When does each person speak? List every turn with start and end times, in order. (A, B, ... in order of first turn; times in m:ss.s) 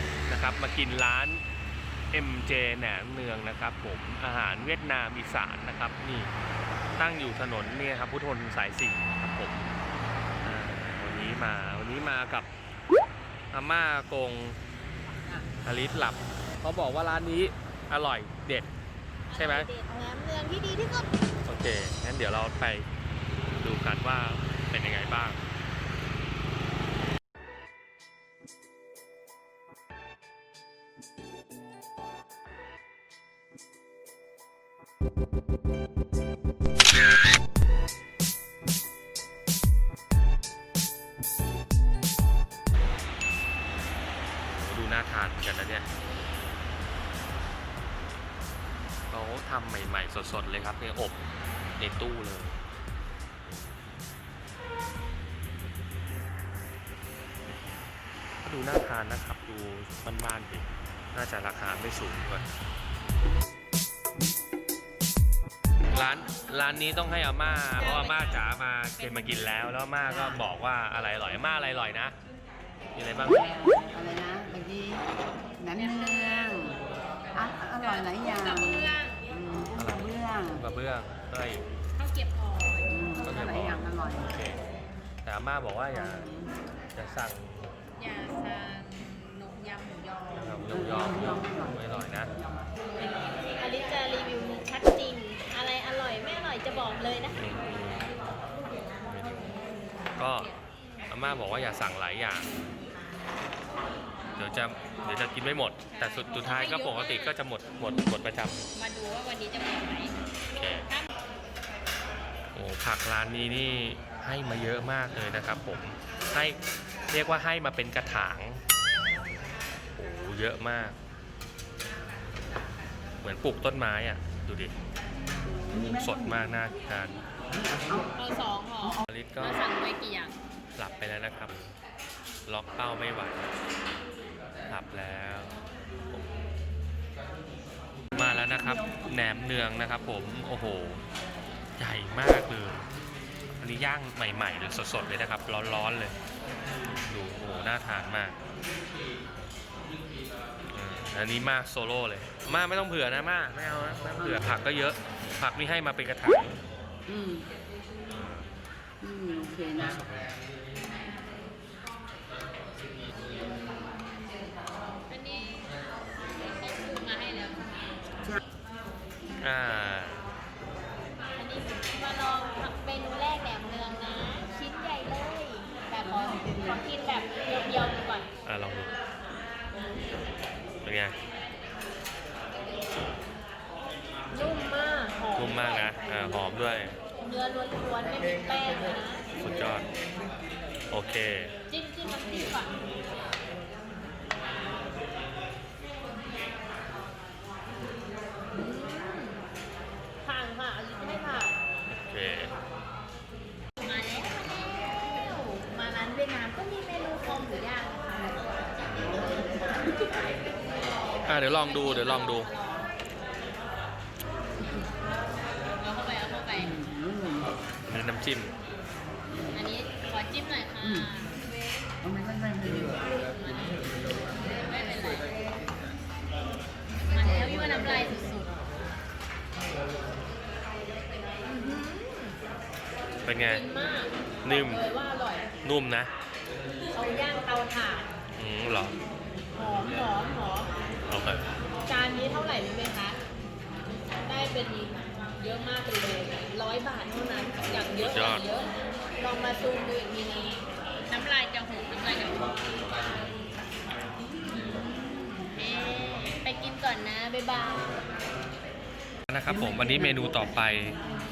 0:00.3-0:01.4 A
0:02.1-0:06.3 A
0:07.0-0:09.6 A
0:10.4-0:12.5 A
0:13.5-0:14.6 A
0:15.6-0:18.7 A
0:19.3-0:21.1 B
0:19.3-0:19.7 A
0:21.4-0:22.9 A
0:23.4-0:25.4 A
0:44.5-0:45.9 A
0:49.1-0:52.6 A
0:58.4-1:02.4 A
1:05.9-1:12.1 A
1:07.8-1:09.4 B
1:10.1-1:10.4 C
1:12.9-1:13.5 A
1:13.3-1:15.0 C
1:15.6-1:16.8 C
1:15.8-1:16.5 B
1:17.3-1:20.6 C
1:17.8-1:19.2 B
1:19.7-1:21.6 A
1:22.0-1:22.9 B
1:22.9-1:24.3 C
1:23.2-1:24.6 A
1:25.2-1:26.3 A
1:25.9-1:26.5 C
1:26.9-1:27.7 A
1:28.0-1:30.4 B
1:30.3-1:32.3 A
1:30.7-1:31.7 C
1:33.0-1:37.4 B
1:37.3-1:38.1 A
1:39.0-1:39.5 A
1:40.2-1:40.5 A
1:41.1-1:42.5 A
1:44.4-1:48.6 A
1:45.9-1:47.4 B
1:48.7-1:50.1 B
1:50.2-1:50.8 A
1:52.5-1:56.6 A
1:57.1-1:58.6 A
2:00.0-2:01.0 A
2:03.2-2:04.7 A
2:05.7-2:06.4 C
2:05.7-2:07.2 A
2:07.5-2:08.1 C
2:08.1-2:10.3 B
2:09.1-2:09.6 A
2:10.8-2:11.6 A
2:12.5-2:13.5 A
2:14.7-2:16.3 A
2:18.1-2:21.0 A
2:18.1-2:19.1 C
2:21.8-2:22.8 A
2:23.6-2:26.1 A
2:26.9-2:28.3 A
2:30.7-2:36.6 A
2:34.2-2:34.4 C
2:37.1-2:37.4 C
2:38.1-2:38.5 A
2:39.0-2:40.0 C
2:39.7-2:40.4 A
2:45.1-2:45.7 B
2:46.4-2:47.8 B
2:49.4-2:50.2 A
2:51.3-2:58.3 B
2:56.0-2:56.8 C
2:58.4-2:58.9 A
3:00.8-3:01.1 A
3:04.3-3:06.0 B
3:05.3-3:07.0 A
3:07.2-3:09.2 B
3:09.4-3:09.8 A
3:10.9-3:11.5 A
3:11.7-3:12.8 B
3:18.5-3:19.4 B
3:20.2-3:21.6 B
3:21.9-3:22.5 A
3:23.8-3:28.4 B
3:29.9-3:30.3 B
3:31.2-3:32.5 A
3:31.3-3:32.9 B
3:35.8-3:36.7 B
3:36.5-3:37.5 C
3:37.8-3:38.5 A
3:39.3-3:39.6 C
3:39.5-3:41.3 B
3:40.8-3:41.1 C
3:42.0-3:43.0 C
3:43.2-3:43.7 B
3:44.4-3:45.2 B
3:47.1-3:48.5 B
3:51.4-3:52.4 B
3:53.2-3:53.6 A
3:53.4-3:55.5 B
3:54.4-3:54.8 A
3:55.6-3:56.1 A
3:56.9-3:58.1 B
3:58.4-3:59.0 A
3:59.5-4:00.7 B
4:01.1-4:01.5 A
4:01.8-4:03.2 B
4:04.2-4:12.5 B
4:07.6-4:08.4 A
4:14.4-4:18.0 B
4:19.3-4:21.0 A